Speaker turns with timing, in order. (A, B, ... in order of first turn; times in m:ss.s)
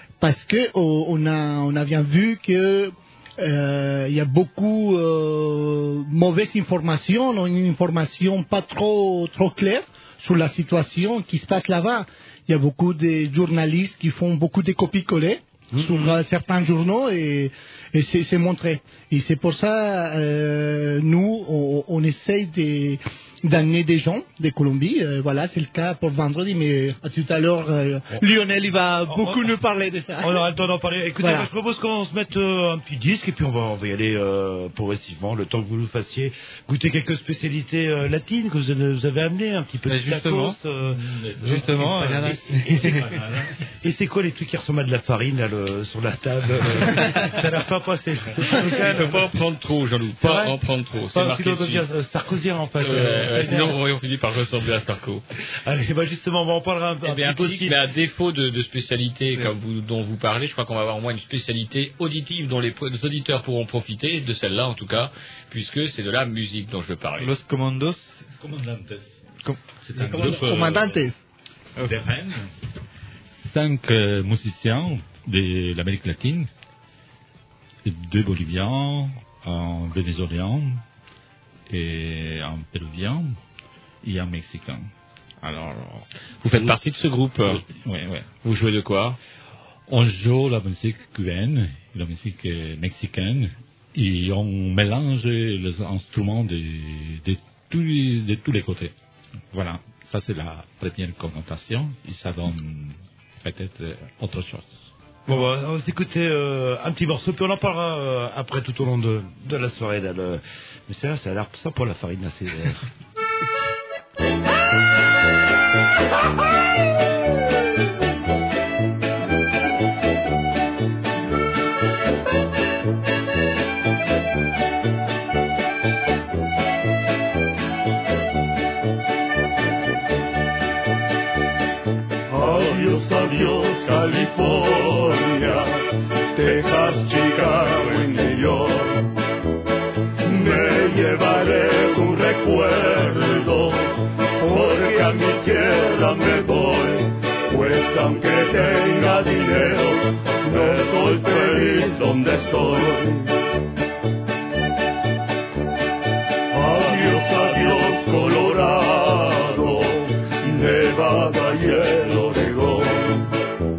0:00.2-0:30.4 A
0:15.7-0:16.2 B
0:29.1-0:29.6 B
0:30.2-0:43.2 B
0:31.2-0:31.5 A
0:39.9-0:40.6 C
0:41.0-0:41.6 D
0:41.4-0:43.1 C
0:42.8-0:43.5 D
0:43.8-0:49.3 B
0:48.6-0:51.9 E
0:50.2-0:50.6 B
0:51.1-0:53.8 B
0:52.8-0:55.2 E
0:55.6-0:57.8 B
0:57.0-1:07.3 E
1:07.2-1:08.2 C
1:08.4-1:09.2 D
1:09.4-1:10.4 C
1:09.8-1:11.0 D
1:10.1-1:11.2 A
1:11.8-1:12.5 D
1:13.4-1:16.5 D
1:17.8-1:20.8 D
1:21.7-1:23.4 D
1:24.0-1:24.9 D
1:25.4-1:26.8 D
1:26.4-1:27.6 E
1:27.5-1:28.3 D
1:28.4-1:29.2 E
1:29.9-1:38.9 D
1:39.5-1:44.9 D
1:45.3-1:52.8 B
2:12.3-2:15.7 F
2:16.4-2:19.0 F
2:20.2-2:33.3 F
2:36.5-2:43.3 F